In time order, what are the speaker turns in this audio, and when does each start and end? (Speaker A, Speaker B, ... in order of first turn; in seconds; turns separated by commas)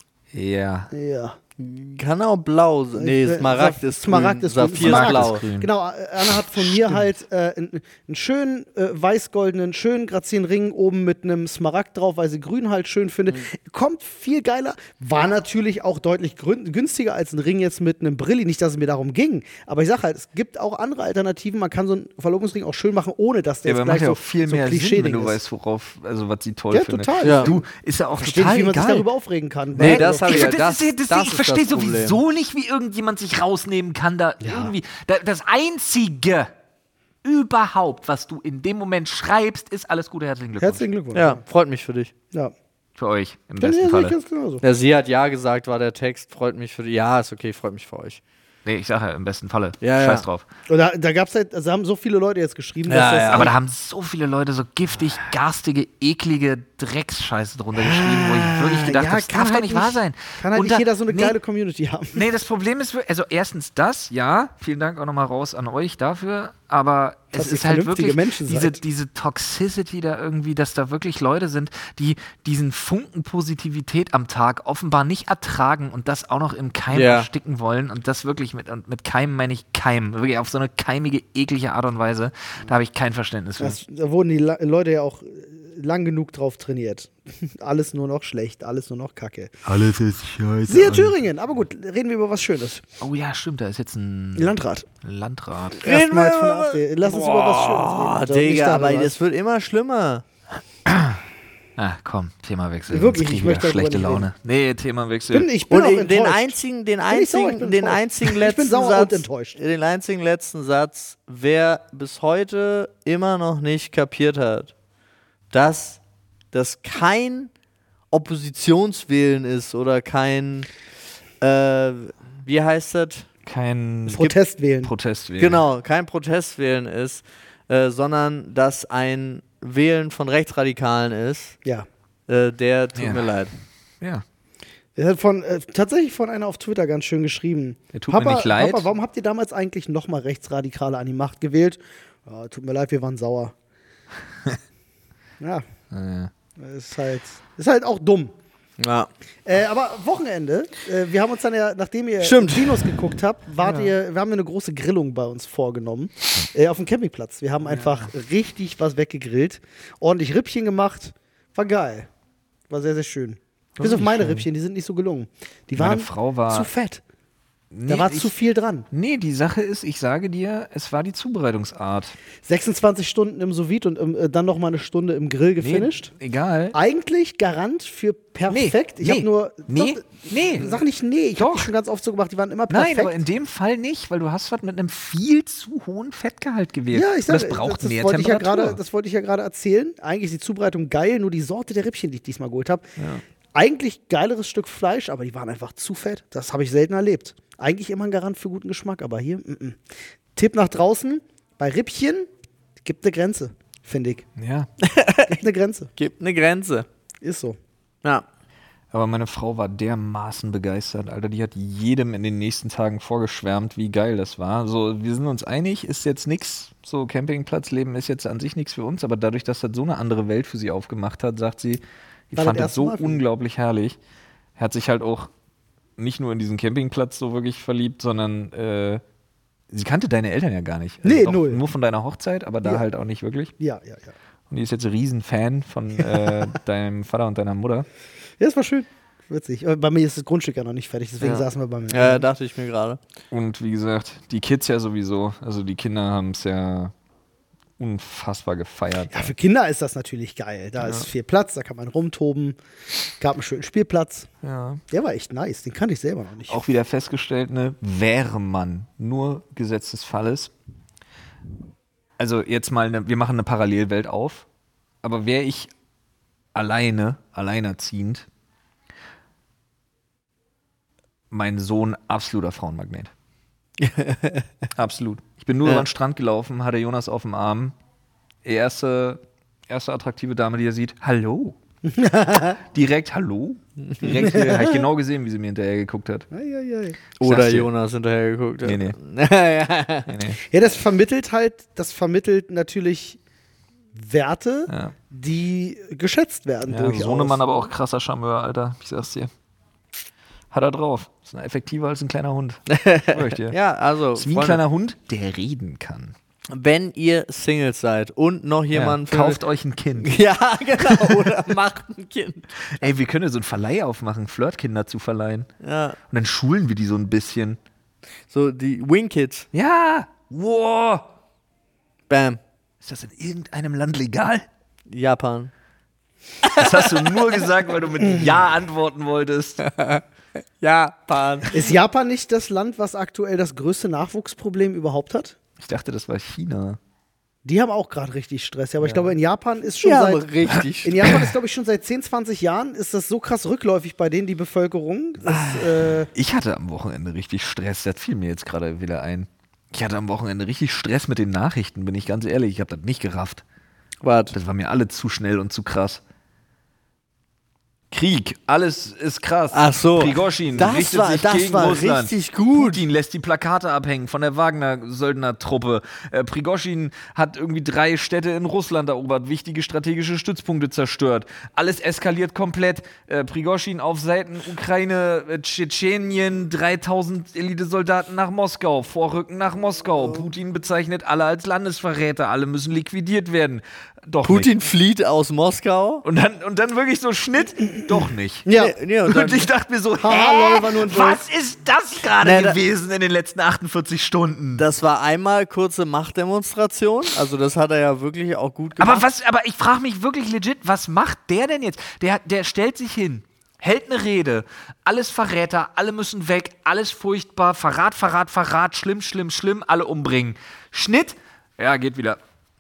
Speaker A: 0.3-0.9, Speaker B: 0.9-1.4, Speaker C: 1.6-5.4, Speaker B: 3.0-25.4, Speaker A: 4.8-5.7, Speaker A: 6.2-7.1, Speaker A: 23.7-29.1, Speaker B: 26.7-27.6, Speaker C: 27.2-27.5, Speaker B: 28.2-30.5, Speaker A: 29.8-36.5, Speaker C: 29.8-32.2, Speaker B: 34.4-34.7, Speaker A: 37.2-40.9, Speaker B: 40.6-41.4, Speaker C: 41.1-42.1, Speaker A: 43.0-44.2, Speaker B: 43.6-44.6, Speaker C: 44.6-48.2, Speaker A: 48.6-50.5, Speaker C: 49.8-50.3, Speaker B: 50.7-53.5, Speaker C: 52.9-53.5, Speaker A: 53.3-61.4, Speaker C: 57.8-58.8, Speaker B: 58.6-62.2, Speaker A: 62.1-83.8, Speaker B: 67.3-68.8, Speaker C: 76.9-77.3, Speaker B: 83.6-89.5, Speaker A: 89.7-91.2, Speaker B: 90.7-92.8, Speaker A: 93.0-95.8, Speaker B: 94.4-94.9, Speaker B: 95.8-99.2, Speaker C: 95.8-100.2, Speaker A: 100.9-101.2, Speaker A: 101.8-105.5, Speaker B: 102.9-104.3, Speaker B: 105.3-106.6, Speaker C: 105.7-114.7, Speaker B: 107.1-109.6, Speaker C: 115.5-116.0, Speaker C: 116.5-117.5, Speaker C: 118.1-120.7, Speaker C: 121.4-123.3, Speaker A: 123.5-125.6, Speaker B: 124.1-124.9, Speaker C: 125.4-131.6, Speaker C: 132.3-133.5, Speaker A: 133.0-133.2, Speaker B: 135.0-143.5, Speaker A: 137.9-138.9, Speaker A: 145.9-146.3, Speaker B: 146.6-148.3, Speaker C: 148.8-149.1, Speaker B: 149.5-162.1, Speaker C: 152.2-153.0, Speaker A: 157.7-158.1, Speaker B: 162.7-167.0, Speaker A: 163.8-164.5, Speaker A: 165.8-166.7, Speaker A: 167.7-168.3, Speaker B: 167.9-168.9, Speaker A: 168.9-172.2, Speaker B: 172.4-176.1, Speaker A: 175.6-176.8, Speaker B: 176.7-183.2, Speaker A: 178.5-180.8, Speaker A: 181.4-181.7, Speaker A: 182.7-188.8, Speaker B: 186.9-192.9, Speaker A: 193.0-193.2, Speaker B: 193.6-199.8, Speaker B: 200.4-202.3, Speaker B: 202.8-204.2, Speaker A: 204.4-204.7, Speaker C: 204.8-205.4, Speaker B: 205.3-205.9, Speaker C: 206.0-206.9, Speaker B: 207.2-207.6, Speaker A: 208.9-224.0, Speaker B: 222.3-223.2, Speaker A: 224.6-225.3, Speaker A: 226.0-229.0, Speaker A: 229.7-233.5, Speaker B: 231.0-231.6, Speaker B: 233.6-234.1, Speaker A: 234.5-237.9, Speaker B: 236.1-236.5, Speaker B: 238.4-242.3, Speaker C: 241.2-243.0, Speaker A: 243.3-246.9, Speaker A: 247.8-249.3, Speaker B: 249.1-252.6, Speaker A: 250.8-251.1, Speaker B: 253.2-254.3, Speaker A: 254.4-254.8, Speaker B: 254.9-256.6, Speaker A: 256.5-260.5, Speaker A: 262.2-264.5, Speaker A: 265.0-265.7, Speaker A: 266.6-268.3, Speaker A: 271.3-273.1, Speaker C: 273.8-274.5, Speaker A: 274.8-277.8, Speaker A: 278.4-281.6, Speaker B: 281.9-282.6, Speaker A: 282.6-286.3, Speaker C: 283.8-284.2, Speaker B: 284.2-284.9, Speaker B: 286.3-287.0, Speaker C: 287.2-290.1, Speaker A: 287.2-287.7, Speaker A: 288.6-289.0, Speaker A: 290.1-290.4, Speaker B: 290.5-293.2, Speaker B: 293.9-297.4, Speaker A: 294.7-294.9, Speaker A: 296.7-299.3, Speaker A: 300.5-303.6, Speaker C: 302.7-304.6, Speaker A: 304.1-306.1, Speaker C: 306.5-309.4, Speaker A: 308.7-310.2, Speaker C: 310.0-312.5, Speaker A: 310.8-311.4, Speaker A: 312.7-315.5, Speaker C: 315.6-316.0, Speaker A: 316.1-317.6, Speaker C: 318.3-319.5, Speaker A: 319.5-321.1, Speaker C: 322.1-322.4, Speaker A: 322.8-324.5, Speaker C: 324.9-325.5, Speaker C: 326.4-327.4, Speaker A: 326.6-329.6, Speaker B: 328.0-328.4, Speaker C: 329.6-330.0, Speaker C: 330.6-331.7, Speaker B: 331.5-335.4, Speaker A: 335.6-336.8, Speaker B: 337.4-340.2, Speaker C: 339.8-341.2, Speaker B: 340.8-346.1, Speaker C: 345.3-345.7, Speaker A: 346.1-353.4, Speaker C: 354.0-354.4, Speaker A: 354.3-356.0, Speaker A: 357.9-384.5, Speaker C: 359.5-362.8, Speaker C: 384.2-386.0, Speaker A: 386.0-388.5, Speaker B: 388.4-388.8, Speaker C: 388.5-389.5, Speaker A: 389.1-394.6, Speaker B: 390.0-391.2, Speaker C: 392.2-392.6, Speaker C: 394.6-399.1, Speaker A: 398.8-412.2